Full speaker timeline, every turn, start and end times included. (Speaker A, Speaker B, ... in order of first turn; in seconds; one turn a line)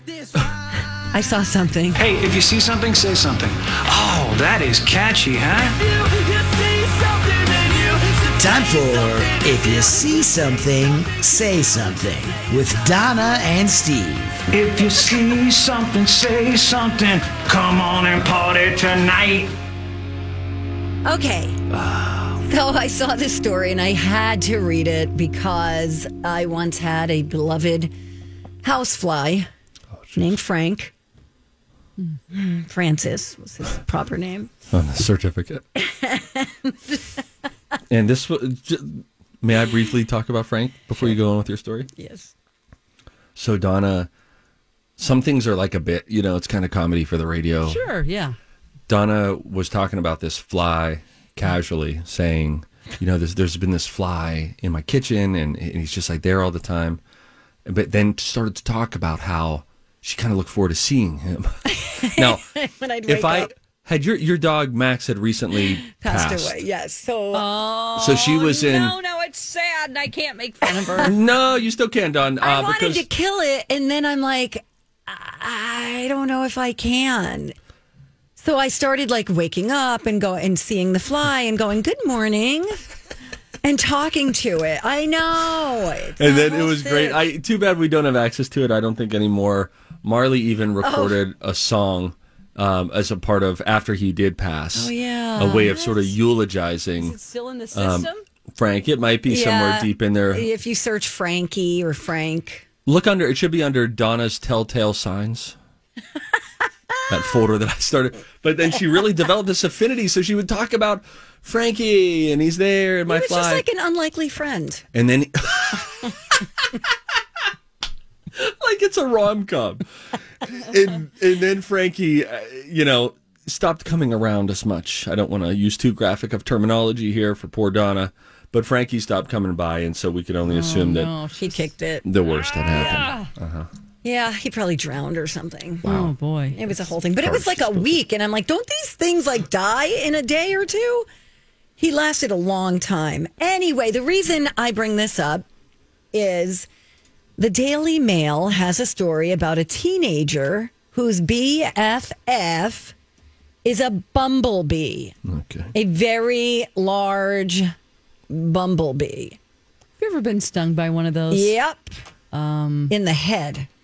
Speaker A: 0.8-2.0
Speaker B: 2.0-6.0
Speaker C: 6.1-8.1
Speaker D: 8.3-14.4
Speaker B: 14.5-19.5
Speaker A: 21.1-21.6
Speaker A: 22.4-27.9
Speaker A: 28.6-29.5
Speaker A: 30.2-30.9
Speaker A: 32.3-34.5
Speaker E: 34.7-35.6
Speaker A: 35.8-37.0
Speaker E: 37.9-41.9
Speaker A: 42.0-42.3
Speaker E: 43.4-44.1
Speaker E: 45.0-47.8
Speaker C: 47.6-48.4
Speaker E: 48.9-57.0
Speaker E: 57.7-62.5
Speaker A: 61.7-63.5
Speaker E: 63.1-66.6
Speaker A: 65.8-67.5
Speaker C: 67.3-71.2
Speaker E: 68.0-69.0
Speaker E: 71.0-73.1
Speaker A: 72.4-77.5
Speaker A: 78.4-82.7
Speaker A: 83.6-87.3
Speaker E: 86.2-97.2
Speaker A: 90.8-91.2
Speaker A: 94.7-96.2
Speaker C: 97.0-98.2
Speaker E: 97.7-100.5
Speaker A: 99.3-102.7
Speaker E: 102.9-105.6
Speaker E: 107.1-113.6
Speaker A: 113.1-114.8
Speaker E: 114.9-116.8
Speaker E: 118.3-119.8
Speaker E: 120.4-131.1
Speaker C: 130.5-131.6
Speaker A: 131.3-132.1
Speaker E: 132.1-133.7
Speaker A: 132.6-133.1
Speaker C: 132.8-133.3
Speaker A: 134.0-135.9
Speaker E: 135.8-136.1
Speaker C: 135.8-136.6
Speaker A: 136.5-141.1
Speaker E: 137.2-137.9
Speaker A: 141.8-145.4
Speaker A: 146.1-146.7
Speaker A: 147.4-152.9
Speaker A: 153.6-155.1
Speaker E: 155.3-155.7
Speaker A: 155.7-157.7
Speaker A: 158.3-159.4
Speaker C: 160.0-161.6
Speaker A: 161.3-161.9
Speaker C: 162.3-162.9
Speaker A: 162.9-163.7